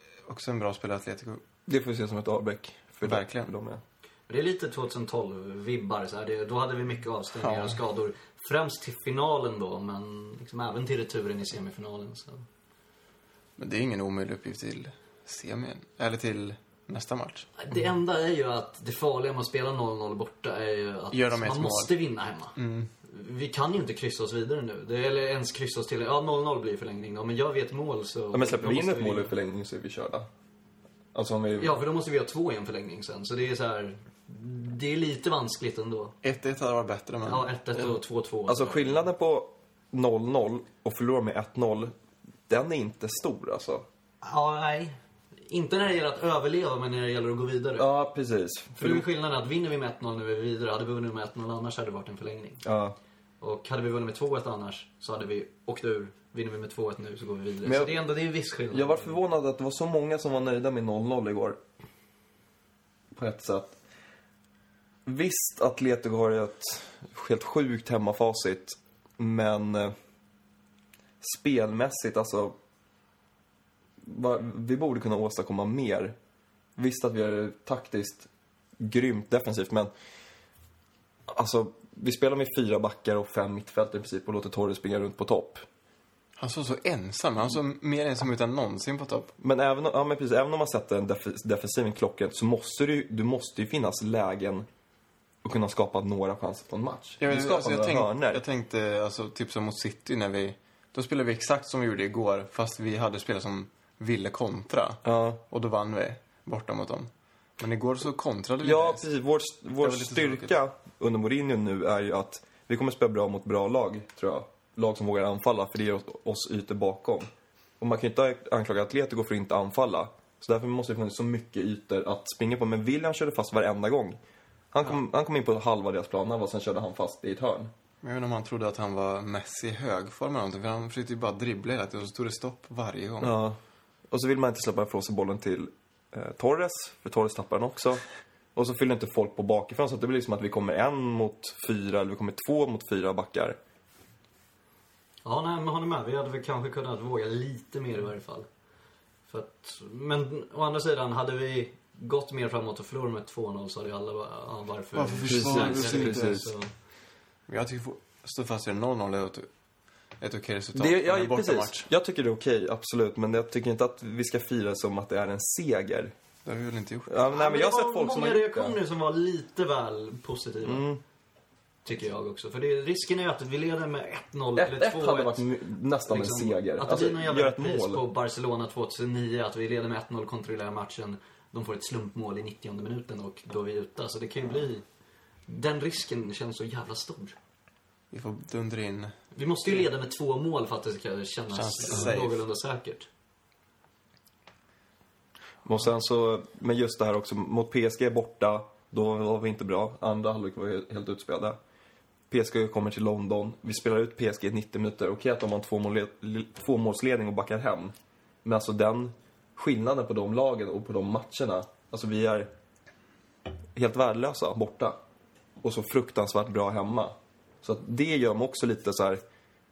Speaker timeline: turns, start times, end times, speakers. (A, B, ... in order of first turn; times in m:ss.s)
0:00.2-0:01.4 A
0:01.6-0:03.8 B
0:03.0-0:03.5 A
0:04.3-0:12.4 C
0:07.4-0:07.8 A
0:13.6-0:17.5 A
0:17.6-0:29.3 C
0:21.1-0:21.9 A
0:22.6-0:22.9 A
0:28.3-0:30.3 B
0:31.1-0:31.8 B
0:31.6-0:36.2 C
0:36.2-0:37.5 A
0:37.2-0:39.0 C
0:38.5-0:41.9 B
0:42.5-0:43.9 B
0:44.2-0:47.9 C
0:47.8-0:49.0 B
0:48.8-0:52.6 C
0:52.6-0:53.0 B
0:53.4-0:59.1 C
0:57.6-0:58.0 B
0:58.7-1:01.6 B
1:03.1-1:03.8 B
1:05.0-1:09.9 B
1:11.2-1:12.5 B
1:14.0-1:16.2 B
1:16.8-1:18.3 B
1:18.8-1:19.9 B
1:21.3-1:25.6 B
1:26.4-1:29.3 A
1:29.4-1:34.7 B
1:35.4-1:38.4 B
1:37.2-1:49.0 A
1:45.0-1:45.4 B
1:48.6-2:04.2 B
1:49.8-1:50.5 A
2:04.7-2:07.7 B
2:08.0-2:13.4 A
2:13.2-2:13.6 B
2:14.1-2:18.0 B
2:18.5-2:23.6 B
2:25.2-2:28.5 C
2:29.3-2:36.7 C
2:34.9-2:36.4 A
2:35.2-2:36.5 B
2:37.5-2:39.5 A
2:40.2-2:41.9 A
2:40.7-2:46.1 B
2:46.4-2:47.1 A
2:47.1-2:48.8 B
2:47.3-2:50.9 C
2:50.6-2:51.0 B
2:51.8-2:55.4 C
2:54.6-2:58.0 B
2:56.1-3:04.8 C
3:05.5-3:07.4 C
3:08.1-3:09.8 A
3:09.3-3:13.1 C
3:11.5-3:12.4 A
3:15.6-3:21.6 B
3:22.3-3:32.5 B
3:33.7-3:35.0 B
3:35.6-3:39.2 B